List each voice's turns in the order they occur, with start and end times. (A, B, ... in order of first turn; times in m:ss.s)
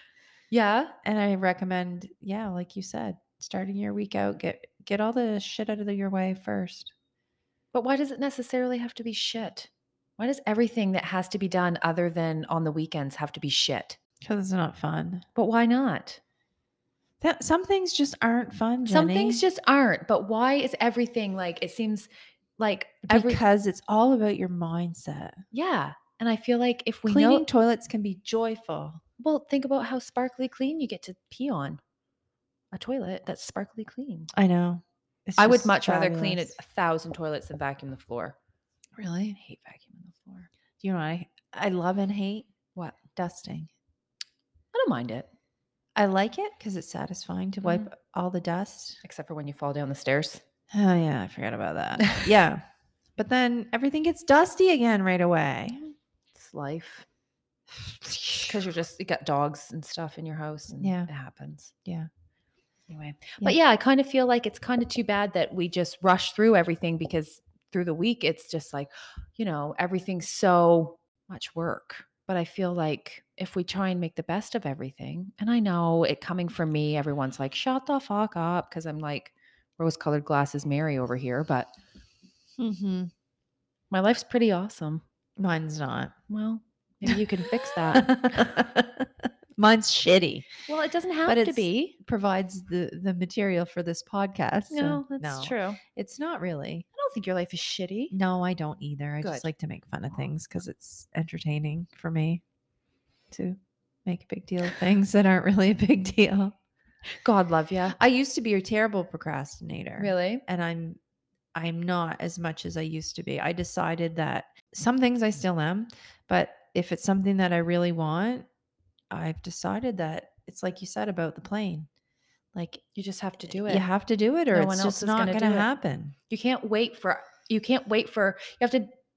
0:00.5-0:00.9 A
0:01.0-0:06.9 B
0:07.7-0:14.0 A
0:14.2-0:15.2 B
0:15.4-0:16.2 A
0:17.2-0:19.4 B
0:18.8-0:23.4 A
0:23.1-0:25.4 B
0:25.5-0:27.5 A
0:27.0-0:29.0 B
0:29.2-0:31.8 A
0:32.7-0:34.3 A
0:34.3-0:36.5 B
0:35.4-0:38.4 A
0:39.0-0:39.4 B
0:39.4-0:40.5 A
0:40.8-0:42.5 B
0:43.1-0:43.7 B
0:44.7-0:45.3 A
0:45.9-0:49.0 B
0:47.6-0:47.9 A
0:49.0-0:50.4 A
0:50.7-0:52.6 B
0:52.0-0:52.3 A
0:53.2-0:55.9 B
0:56.3-0:57.0 A
0:57.8-0:58.5 B
0:58.3-1:01.7 A
1:00.8-1:01.1 B
1:02.9-1:21.7 A
1:22.6-1:23.1 B
1:23.9-1:25.0 A
1:25.4-1:26.1 B
1:26.3-1:28.2 A
1:27.0-1:30.5 B
1:30.7-1:32.0 A
1:31.2-1:36.8 B
1:34.7-1:35.8 A
1:36.9-1:38.1 A
1:38.1-1:42.4 B
1:39.2-1:39.5 A
1:43.3-1:46.5 B
1:47.2-1:48.0 A
1:48.0-1:51.0 B
1:50.0-1:50.4 A
1:51.5-1:58.5 B
1:59.1-2:01.9 B
2:02.5-2:02.8 B
2:02.9-2:03.9 A
2:03.6-2:06.1 B
2:04.5-2:05.7 A
2:06.3-2:08.9 A